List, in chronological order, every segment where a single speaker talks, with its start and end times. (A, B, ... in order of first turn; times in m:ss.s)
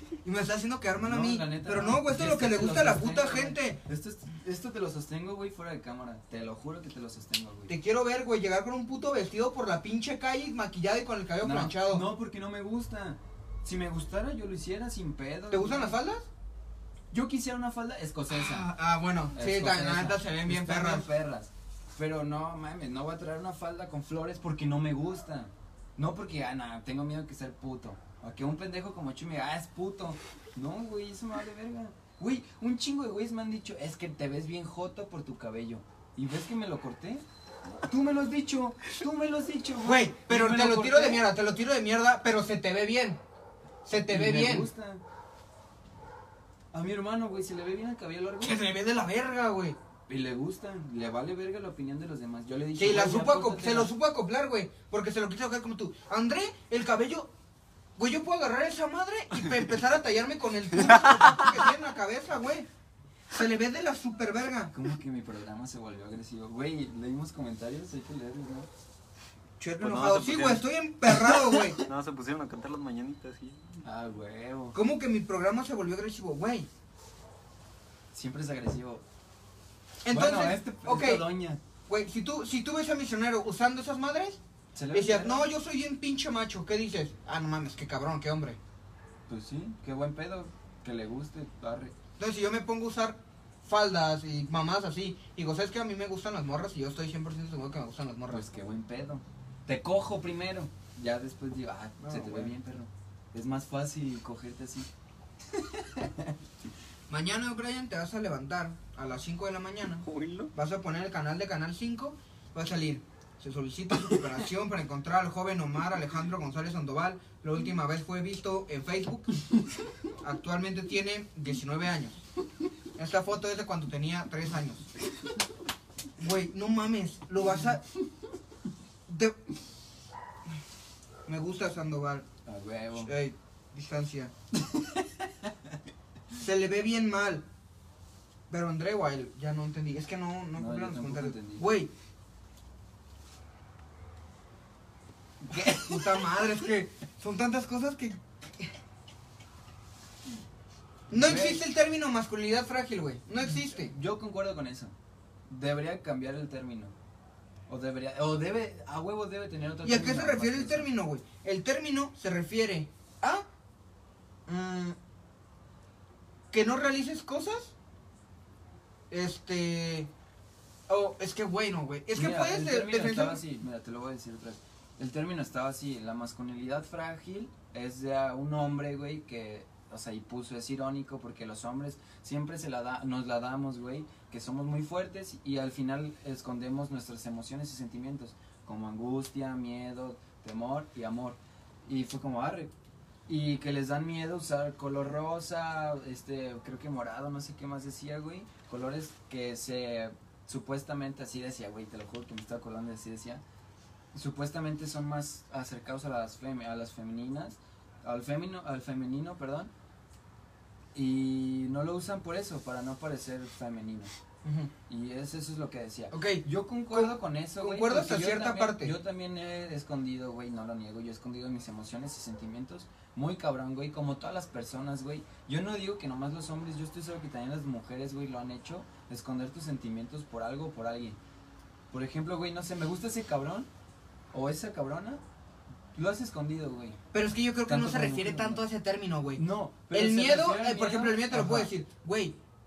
0:00.2-0:03.8 A
0:01.0-0:07.7 B
0:07.7-0:12.0 A
0:11.4-0:16.0 B
0:15.5-0:16.3 A
0:17.1-0:18.7 B
0:18.3-0:21.1 A
0:19.3-0:41.3 B
0:39.8-0:43.2 A
0:43.8-0:44.7 A
0:44.1-0:45.0 B
0:46.7-0:48.6 B
0:48.4-0:49.8 A
0:50.1-0:53.9 B
0:52.8-0:57.3 A
0:58.0-1:02.7 A
1:03.3-1:04.7 A
1:04.7-1:08.7 B
1:09.6-1:11.8 A
1:09.8-1:13.8 C
1:13.8-1:14.8 B
1:14.7-1:16.7 A
1:18.1-1:19.0 B
1:20.0-1:21.2 A
1:20.1-1:21.6 B
1:21.9-1:24.4 A
1:24.7-1:25.5 B
1:24.9-1:28.6 A
1:29.3-1:31.9 B
1:32.2-1:38.4 A
1:38.3-1:44.9 B
1:42.0-1:42.5 A
1:45.5-1:46.4 B
1:47.1-1:59.3 A
1:50.0-1:50.5 C
2:00.2-2:02.2 A
2:03.0-2:04.9 A
2:06.2-2:07.8 A
2:09.1-2:09.4 A
2:11.2-2:12.3 A
2:12.4-2:13.1 B
2:13.0-2:14.3 A
2:14.5-2:15.8 B
2:16.4-2:17.4 A
2:18.5-2:21.9 A
2:20.6-2:21.7 B
2:25.4-2:26.2 B
2:25.5-2:28.7 A
2:31.1-2:31.6 B
2:31.1-2:33.9 A
2:33.4-2:34.9 B
2:35.5-2:36.9 B
2:37.7-2:40.9 B
2:39.8-2:43.4 A
2:44.5-2:45.0 A
2:46.5-2:47.7 A
2:49.1-2:50.1 A
2:50.9-2:53.4 A
2:52.1-3:12.7 B
3:13.3-3:23.4 B
3:24.1-3:29.7 B
3:30.9-3:34.1 B
3:34.4-3:34.7 A
3:34.9-3:51.2 B
3:36.1-3:39.0 A
3:51.9-3:53.7 B
3:54.3-3:55.2 B
3:55.9-3:57.0 B
3:57.1-4:02.4 A
3:57.6-3:58.6 B
3:59.4-4:01.7 B